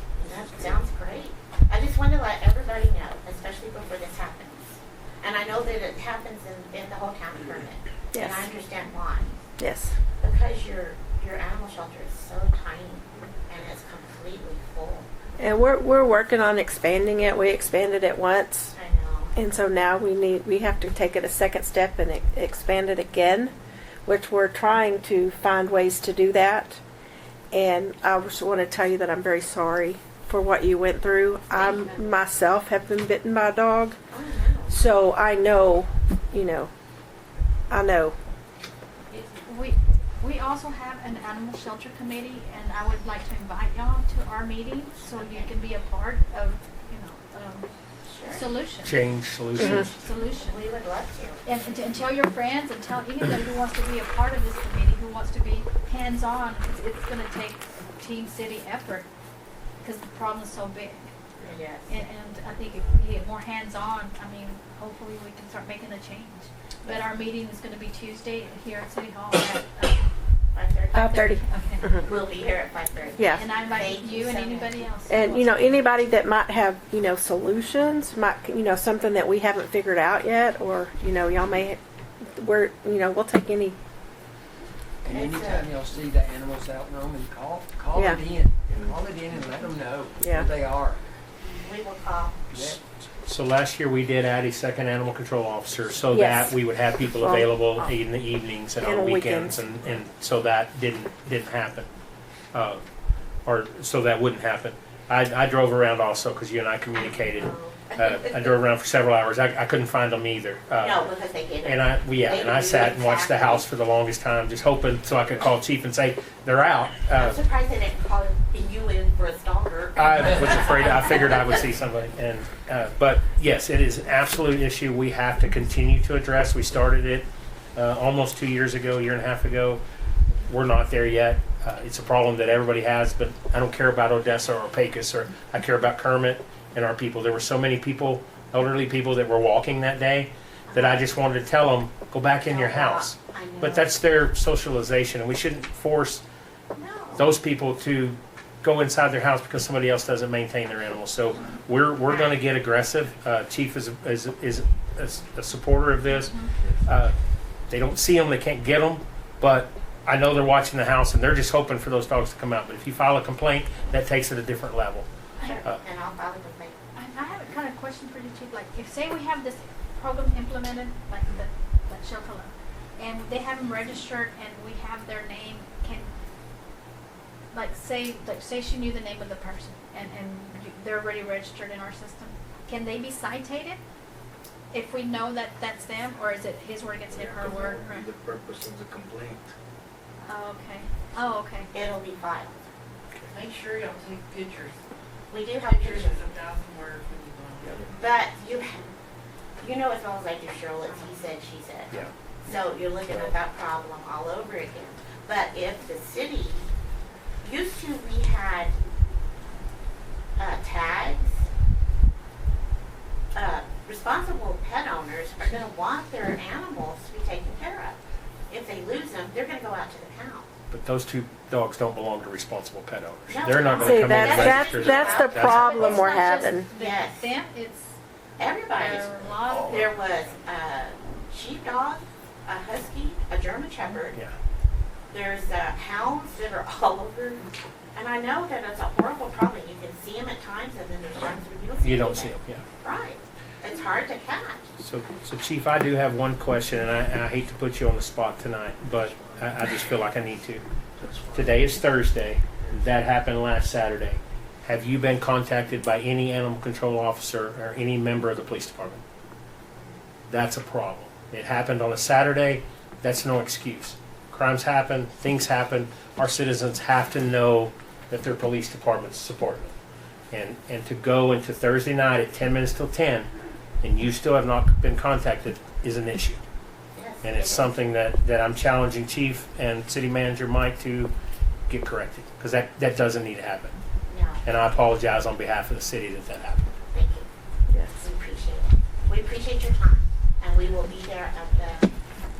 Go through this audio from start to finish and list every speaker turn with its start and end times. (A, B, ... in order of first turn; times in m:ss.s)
0:00.2-0:09.4 A
0:00.3-0:00.8 B
0:08.1-0:08.5 C
0:09.6-0:10.0 C
0:10.2-0:15.1 A
0:15.4-0:18.7 C
0:18.7-0:19.3 A
0:19.3-0:23.5 C
0:24.0-0:26.8 C
0:27.5-0:34.0 C
0:34.1-0:34.8 A
0:34.7-0:36.7 C
0:37.7-0:38.2 C
0:39.4-0:47.7 D
0:45.0-0:45.5 A
0:48.0-0:48.4 A
0:48.3-0:50.6 D
0:48.8-0:49.9 E
0:50.2-0:51.4 A
0:51.4-0:59.1 D
0:59.8-1:01.1 D
1:01.4-1:02.0 A
1:01.9-1:10.1 D
1:10.5-1:11.2 A
1:10.9-1:11.4 C
1:10.9-1:12.0 D
1:12.0-1:14.8 A
1:13.2-1:13.4 C
1:13.2-1:15.7 D
1:15.1-1:23.8 C
1:25.0-1:31.0 F
1:25.1-1:25.7 A
1:27.9-1:28.2 C
1:28.7-1:29.0 B
1:30.2-1:30.5 C
1:31.4-1:32.4 A
1:32.5-1:41.9 E
1:36.1-1:37.9 C
1:38.8-1:39.6 C
1:42.5-1:42.8 E
1:43.4-1:51.0 E
1:46.9-1:48.5 A
1:50.8-1:53.6 A
1:51.6-1:57.4 E
1:57.1-2:01.6 A
2:00.0-2:09.8 E
2:10.3-2:26.2 E
2:20.7-2:21.1 A
2:22.5-2:23.9 A
2:26.7-2:27.3 A
2:27.2-2:37.2 E
2:32.1-2:32.4 A
2:36.1-2:36.5 D
2:37.7-2:45.1 E
2:45.4-2:46.8 A
2:46.9-2:56.1 D
2:57.5-3:03.8 D
3:04.7-3:08.1 D
3:07.1-3:09.5 B
3:10.2-3:11.7 D
3:11.7-3:12.6 A
3:13.3-3:14.8 G
3:15.3-3:16.3 A
3:15.6-3:17.7 G
3:17.9-3:18.9 A
3:19.6-3:26.7 A
3:27.4-3:28.7 A
3:30.4-3:31.4 A
3:33.3-3:38.0 A
3:38.5-3:40.5 A
3:40.7-3:46.1 E
3:43.3-3:45.9 A
3:43.8-3:46.7 C
3:43.9-3:47.9 D
3:46.7-3:47.3 A
3:48.4-3:54.2 A
3:48.7-3:50.0 D
3:55.1-4:04.7 A
4:01.8-4:02.6 E
4:04.8-4:10.6 E
4:08.9-4:09.4 B
4:11.0-4:11.8 B
4:11.3-4:19.0 E
4:12.5-4:13.1 B
4:20.3-4:29.7 E
4:30.3-4:33.3 E
4:33.8-4:36.4 E
4:36.9-4:37.8 A
4:37.2-4:41.1 E
4:41.7-4:43.8 E
4:44.1-4:44.4 A
4:44.4-4:46.6 E
4:46.9-4:47.3 A
4:47.7-4:48.0 C
4:48.0-4:51.9 A